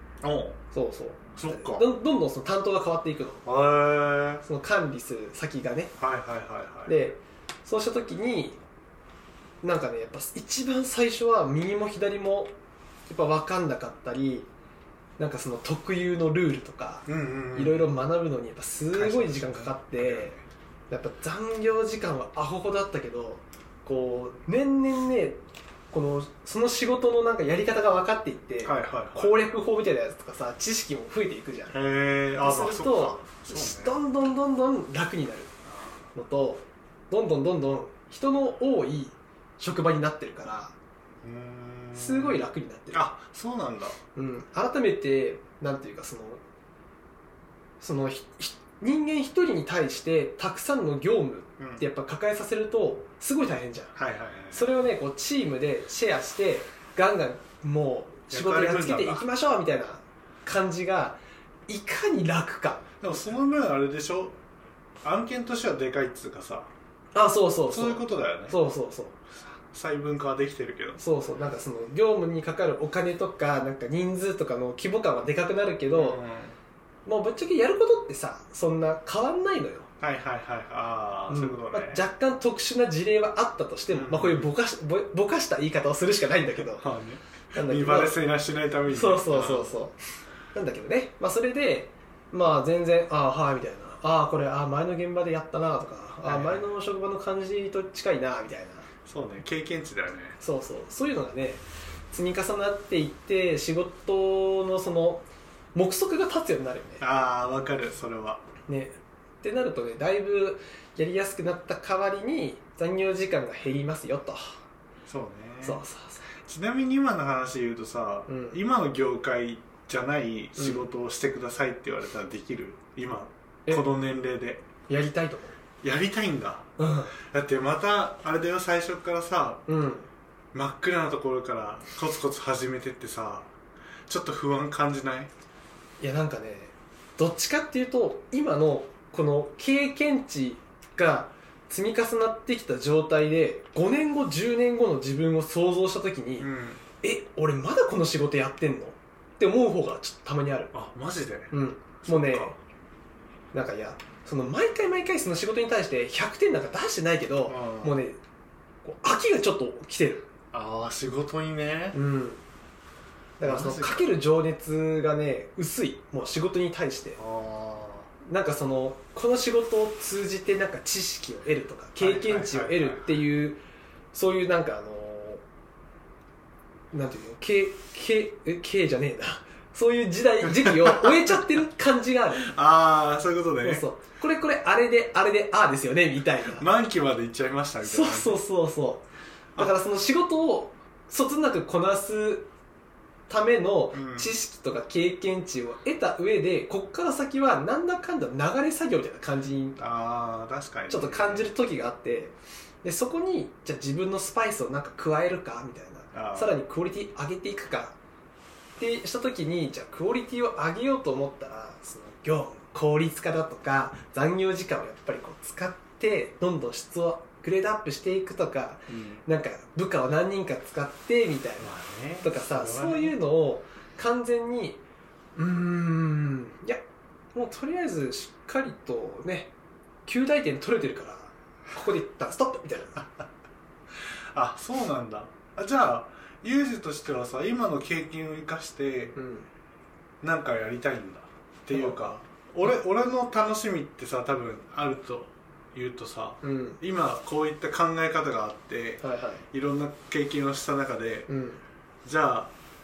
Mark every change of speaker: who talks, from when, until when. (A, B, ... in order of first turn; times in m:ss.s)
0:00.2-0:00.6 A
0:00.7-0:03.4 B
0:01.4-0:01.8 A
0:03.4-0:04.4 A
0:04.4-0:05.9 B
0:06.0-0:06.9 A
0:06.8-0:08.6 B
0:09.6-0:12.5 B
0:13.1-0:14.5 B
0:15.2-0:20.3 B
0:17.0-0:17.8 A
0:18.9-0:20.4 A
0:20.9-0:25.4 B
0:25.9-0:31.8 B
0:28.6-0:29.3 A
0:31.7-0:34.0 A
0:32.3-0:35.5 B
0:35.6-0:36.0 A
0:36.1-0:40.7 B
0:41.2-0:44.0 A
0:41.9-0:43.0 B
0:44.1-0:46.4 B
0:47.8-0:53.9 B
0:51.6-0:51.8 A
0:53.9-0:54.6 A
0:54.5-1:02.9 B
0:58.3-0:59.3 A
1:03.0-1:04.4 A
1:05.0-1:06.7 A
1:07.1-1:09.2 B
1:07.7-1:08.6 A
1:09.4-1:11.0 A
1:11.0-1:16.2 B
1:15.9-1:16.6 A
1:17.0-1:19.9 B
1:20.0-1:22.0 A
1:21.3-1:26.8 B
1:23.9-1:24.5 A
1:26.8-1:29.7 A
1:27.5-1:28.2 B
1:28.9-1:30.0 B
1:30.5-1:38.9 B
1:36.2-1:36.7 A
1:39.0-1:40.4 A
1:40.4-1:45.2 B
1:45.7-1:47.0 B
1:47.0-1:48.4 A
1:48.7-1:54.6 B
1:55.1-1:55.8 A
1:55.6-1:56.3 B
1:56.4-2:04.7 A
1:58.3-1:58.6 B
2:00.6-2:00.9 B
2:04.9-2:05.6 B
2:05.8-2:09.6 A
2:06.8-2:07.1 B
2:09.7-2:10.1 B
2:10.5-2:13.5 A
2:14.1-2:15.3 A
2:16.0-2:26.5 B
2:26.4-2:26.8 A
2:27.0-2:30.7 B
2:30.7-2:32.6 A
2:31.5-2:32.6 B
2:33.5-2:38.2 B
2:37.5-2:38.0 A
2:38.8-2:40.3 B
2:40.5-2:42.0 A
2:41.9-2:42.4 B
2:43.4-2:47.2 B
2:43.4-2:44.1 A
2:47.2-2:48.1 A
2:48.2-2:53.6 B
2:52.0-2:53.0 A
2:54.1-2:55.4 B
2:56.9-3:02.5 B
3:00.4-3:01.4 A
3:02.4-3:03.8 A
3:03.6-3:06.7 B
3:06.5-3:08.4 A
3:07.8-3:09.0 B
3:09.6-3:12.5 B
3:13.3-3:19.8 B
3:13.9-3:14.3 A
3:19.8-3:21.5 A
3:20.9-3:28.0 B
3:26.1-3:26.6 A
3:28.8-3:44.8 B
3:38.9-3:39.2 A
3:41.6-3:43.2 A
3:45.4-3:46.8 B
3:47.3-3:49.5 B
3:50.0-3:53.0 B
3:54.3-3:59.2 A
3:59.1-3:59.5 B
4:00.2-4:11.3 A
4:01.7-4:02.0 B
4:06.4-4:06.8 B
4:09.0-4:09.4 B
4:11.3-4:11.6 B
4:12.0-4:12.5 A